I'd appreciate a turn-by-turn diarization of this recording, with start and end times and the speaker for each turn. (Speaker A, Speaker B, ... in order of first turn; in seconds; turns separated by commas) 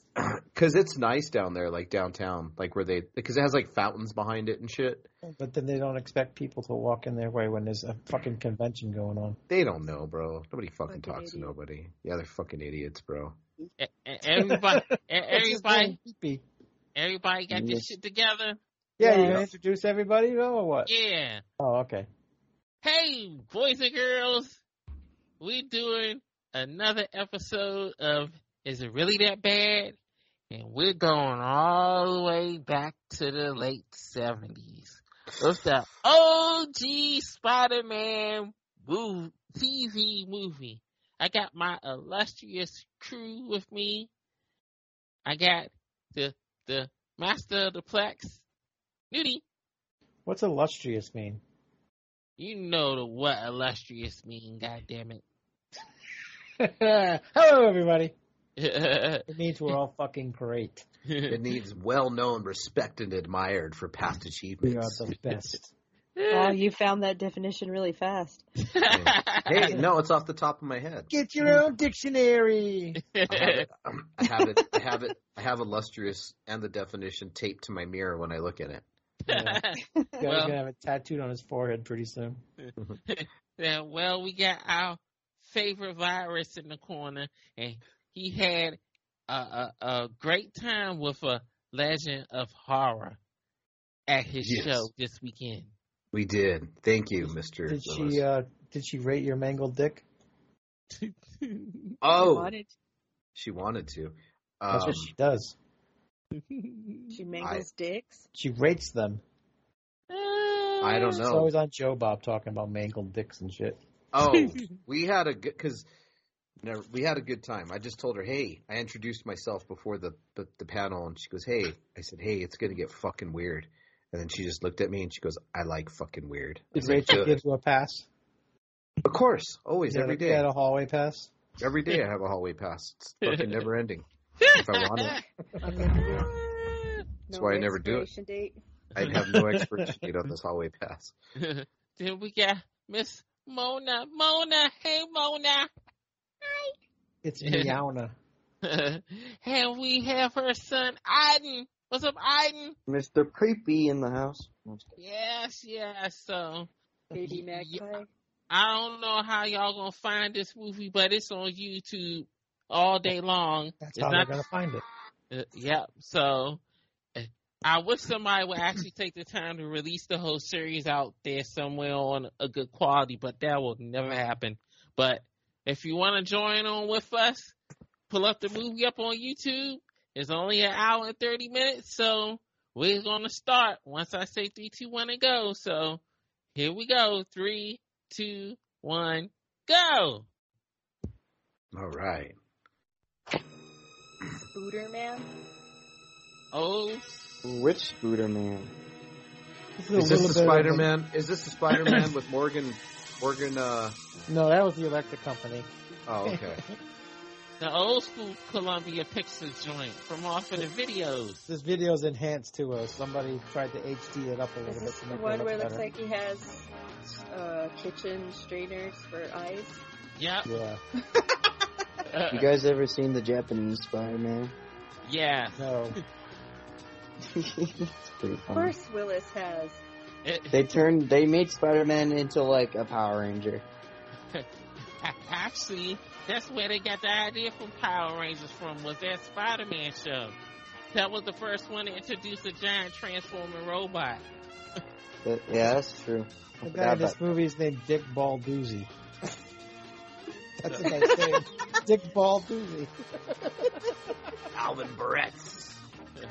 Speaker A: 0.2-5.1, Speaker B: 5.2-9.4, Speaker A: 9.5-13.4, Speaker C: 10.9-11.5, Speaker D: 13.8-16.0, Speaker B: 14.3-16.4, Speaker D: 16.9-18.6, Speaker E: 17.5-17.9, Speaker B: 19.0-20.9, Speaker C: 19.0-19.4, Speaker D: 20.9-21.4, Speaker B: 21.6-22.1, Speaker D: 22.8-24.6, Speaker D: 25.4-29.9, Speaker D: 30.5-44.1, Speaker D: 45.2-48.4, Speaker D: 49.1-49.4, Speaker B: 50.2-51.4, Speaker D: 52.4-55.2, Speaker B: 56.6-58.1, Speaker D: 58.6-59.3, Speaker B: 59.3-60.8, Speaker D: 61.1-61.4, Speaker A: 61.3-65.0, Speaker B: 64.6-65.7, Speaker D: 66.2-66.5, Speaker C: 66.3-68.4, Speaker D: 68.7-69.8, Speaker A: 68.9-71.1, Speaker B: 71.1-73.0, Speaker D: 73.1-73.7, Speaker A: 73.3-78.8, Speaker D: 79.2-80.6, Speaker B: 79.3-79.7, Speaker B: 80.2-82.4, Speaker D: 82.6-93.2, Speaker D: 94.1-95.7, Speaker A: 94.4-94.9, Speaker A: 96.1-98.2, Speaker B: 97.2-100.0, Speaker D: 100.9-102.0, Speaker A: 102.0-102.5, Speaker C: 102.1-102.7, Speaker A: 103.3-105.1, Speaker B: 104.7-105.6, Speaker D: 106.4-107.1, Speaker C: 107.1-108.3, Speaker A: 107.4-107.7, Speaker B: 108.3-109.2, Speaker D: 110.1-111.2, Speaker A: 110.8-111.5, Speaker B: 111.2-113.8, Speaker A: 114.1-115.9, Speaker A: 116.6-127.4, Speaker B: 126.8-128.1, Speaker A: 129.0-130.5, Speaker B: 129.9-131.3, Speaker A: 131.6-135.2, Speaker D: 133.2-133.6, Speaker D: 134.4-135.2, Speaker C: 135.6-138.6, Speaker A: 137.3-138.1, Speaker A: 138.9-141.1, Speaker B: 139.1-140.0, Speaker D: 141.4-145.7, Speaker B: 147.2-148.2, Speaker D: 147.4-147.8, Speaker D: 148.6-152.8, Speaker E: 152.9-154.9, Speaker D: 155.0-156.7, Speaker C: 157.1-158.1, Speaker D: 158.5-164.4, Speaker B: 163.8-164.8, Speaker D: 165.3-166.6, Speaker D: 167.2-177.6, Speaker D: 178.1-186.0, Speaker D: 186.6-190.3, Speaker A: 191.7-192.4, Speaker C: 194.5-195.3, Speaker D: 196.5-197.2, Speaker E: 197.4-198.7, Speaker B: 199.8-200.9, Speaker A: 199.9-204.0, Speaker B: 204.3-205.7, Speaker A: 206.1-206.6, Speaker B: 206.2-206.6, Speaker D: 207.6-211.4, Speaker B: 211.5-215.9, Speaker C: 214.7-216.7, Speaker C: 217.3-219.8, Speaker D: 220.2-220.5, Speaker B: 220.4-220.8, Speaker D: 222.1-222.5, Speaker E: 222.3-224.6, Speaker D: 225.1-225.7, Speaker B: 225.6-226.0, Speaker E: 227.3-228.7, Speaker C: 228.5-229.8, Speaker D: 230.2-230.6, Speaker E: 230.5-233.6, Speaker D: 235.0-240.4, Speaker D: 240.9-244.2, Speaker E: 245.2-247.2, Speaker B: 246.6-248.9, Speaker B: 250.6-254.1, Speaker A: 254.5-255.8